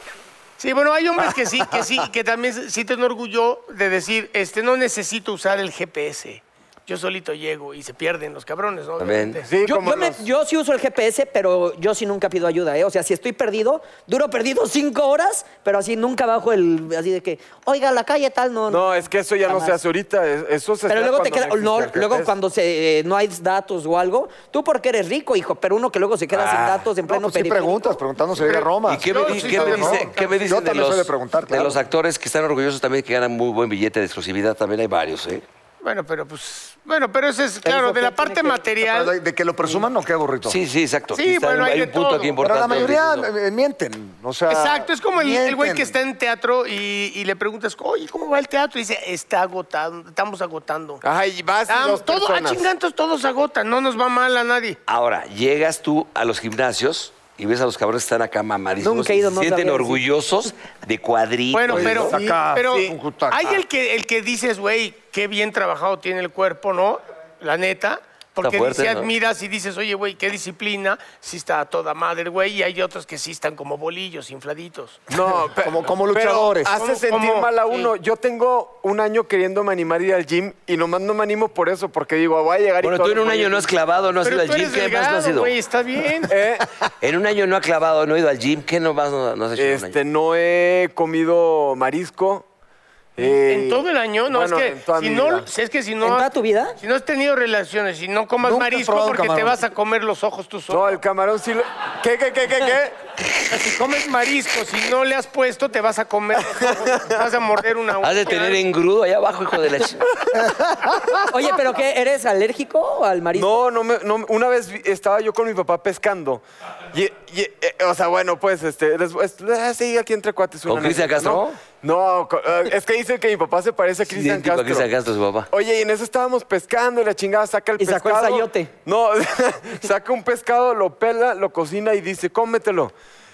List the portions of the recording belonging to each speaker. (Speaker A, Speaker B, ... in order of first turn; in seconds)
Speaker A: 0.6-9.5, 28.4-30.6, 35.8-39.1, 41.1-42.4, 44.5-51.0, 51.7-54.8, 61.5-75.0, 76.7-77.9, 84.2-86.4, 93.2-101.0, 103.5-108.6
Speaker B: 9.0-9.4, 26.3-26.9, 28.9-35.4, 40.5-43.3, 54.9-62.1, 68.4-69.1, 82.8-85.5, 87.0-90.0, 108.0-110.1, 120.7-121.6, 124.1-125.5
Speaker C: 9.4-10.2, 18.7-22.3, 51.0-52.7, 61.7-62.9, 75.1-83.7, 86.3-86.7, 89.6-92.5, 93.2-95.5, 100.7-103.0, 106.5-107.3, 113.3-124.9, 125.5-132.9
Speaker D: 9.6-19.8, 20.9-28.0, 37.6-38.7, 58.8-60.0, 96.0-96.8, 111.3-113.6, 127.8-128.7
Speaker E: 27.1-31.8, 38.8-40.6, 42.4-45.9, 61.7-63.6, 75.5-76.8, 98.4-99.6